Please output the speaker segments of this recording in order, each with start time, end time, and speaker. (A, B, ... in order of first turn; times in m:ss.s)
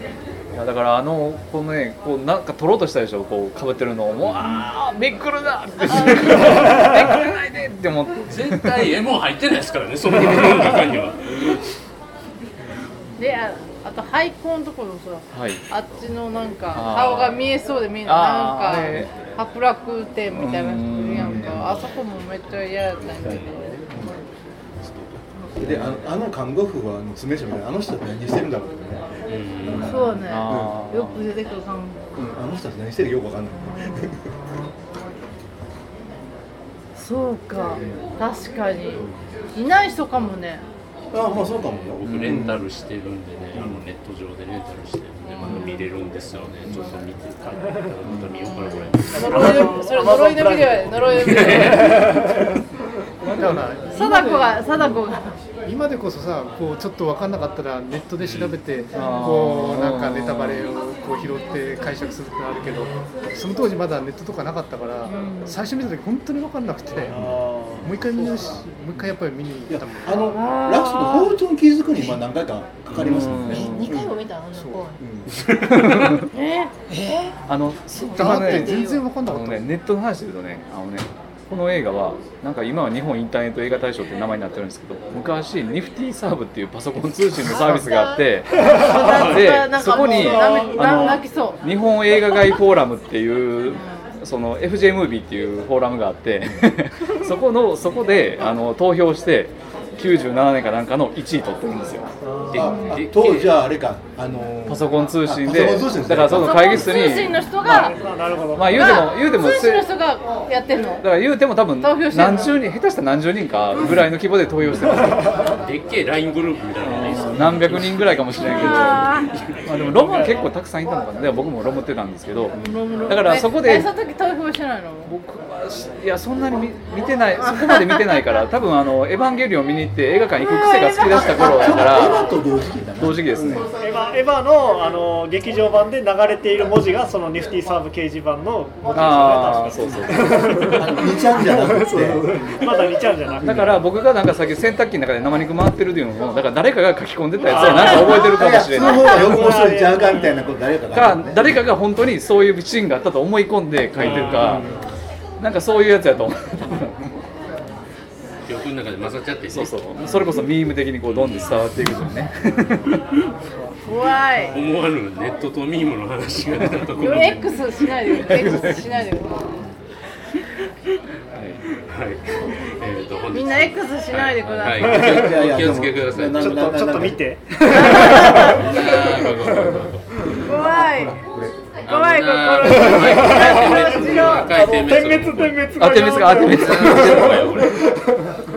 0:00.5-0:08.9 A
0:05.8-0:06.9 B
0:08.3-0:11.6 C
0:13.2-0:23.8 B
0:15.3-0:15.6 A
0:16.7-0:17.4 A
0:18.0-0:19.2 A
0:20.3-0:21.6 A
0:21.1-0:21.6 D
0:23.0-0:23.9 C
0:24.8-0:25.3 C
0:25.3-0:25.6 B
0:25.6-0:30.8 D
0:29.3-0:30.1 C
0:29.7-0:32.0 B
0:30.2-0:31.3 A
0:32.2-0:34.3 D
0:33.8-0:34.1 B
0:37.0-0:40.6 B
0:37.7-0:38.1 D
0:39.0-0:39.2 D
0:41.1-0:42.7 D
0:42.0-0:49.7 C
0:42.1-0:42.4 A
0:43.5-0:43.8 D
0:45.3-0:45.9 B
0:48.5-0:52.1 B
0:49.1-0:52.5 E
0:50.9-0:52.1 C
0:53.2-0:53.6 A
0:53.3-0:54.9 F
0:53.9-0:55.4 B
0:55.6-1:10.4 F
0:58.2-0:58.6 C
0:58.9-1:00.7 A
1:05.0-1:05.6 B
1:07.1-1:08.5 D
1:09.7-1:14.2 D
1:10.3-1:11.4 B
1:12.9-1:13.9 A
1:13.5-1:15.0 G
1:14.5-1:14.9 F
1:15.0-1:15.3 D
1:15.3-1:16.2 C
1:15.7-1:16.3 A
1:16.3-1:16.7 B
1:16.9-1:17.3 G
1:17.5-1:42.1 A
1:17.9-1:19.7 F
1:18.0-1:19.0 G
1:27.5-1:28.2 G
1:28.6-1:31.6 B
1:28.9-1:29.3 C
1:30.0-1:31.0 E
1:33.6-1:34.1 B
1:42.3-1:47.0 D
1:42.5-1:43.6 C
1:42.6-1:43.0 B
1:44.7-1:47.9 A
1:46.2-1:48.0 B
1:47.7-1:49.1 E
1:48.5-1:49.9 A
1:48.7-1:51.2 B
1:51.0-1:55.6 A
1:51.7-1:52.6 B
1:55.6-2:00.5 C
1:56.8-2:03.9 A
1:58.4-1:59.3 B
2:02.5-2:02.8 D
2:02.5-2:05.2 B
2:05.1-2:12.4 A
2:07.5-2:08.2 B
2:10.4-2:12.3 B
2:11.1-2:13.7 D
2:13.0-2:13.7 A
2:13.6-2:23.9 E
2:18.9-2:20.8 A
2:20.7-2:22.5 D
2:23.4-2:29.5 A
2:27.4-2:30.3 E
2:27.6-2:28.2 B
2:27.7-2:31.5 D
2:29.0-2:29.4 B
2:30.9-2:34.7 A
2:34.0-2:34.7 C
2:34.0-2:34.7 D
2:35.4-2:37.1 A
2:38.5-2:39.8 C
2:39.5-2:43.0 A
2:41.1-2:41.5 C
2:43.8-2:44.6 B
2:44.5-2:48.2 C
2:47.0-2:49.6 B
2:48.3-2:49.1 A
2:51.3-2:51.6 A
2:51.8-2:56.9 C
2:53.3-2:55.1 B
2:54.8-2:57.2 D
2:56.4-3:00.3 E
2:57.7-2:58.9 B
2:58.1-3:00.5 C
3:00.4-3:01.2 B
3:00.5-3:01.6 D
3:01.8-3:08.0 C
3:01.9-3:04.8 B
3:02.7-3:08.3 E
3:05.8-3:07.7 A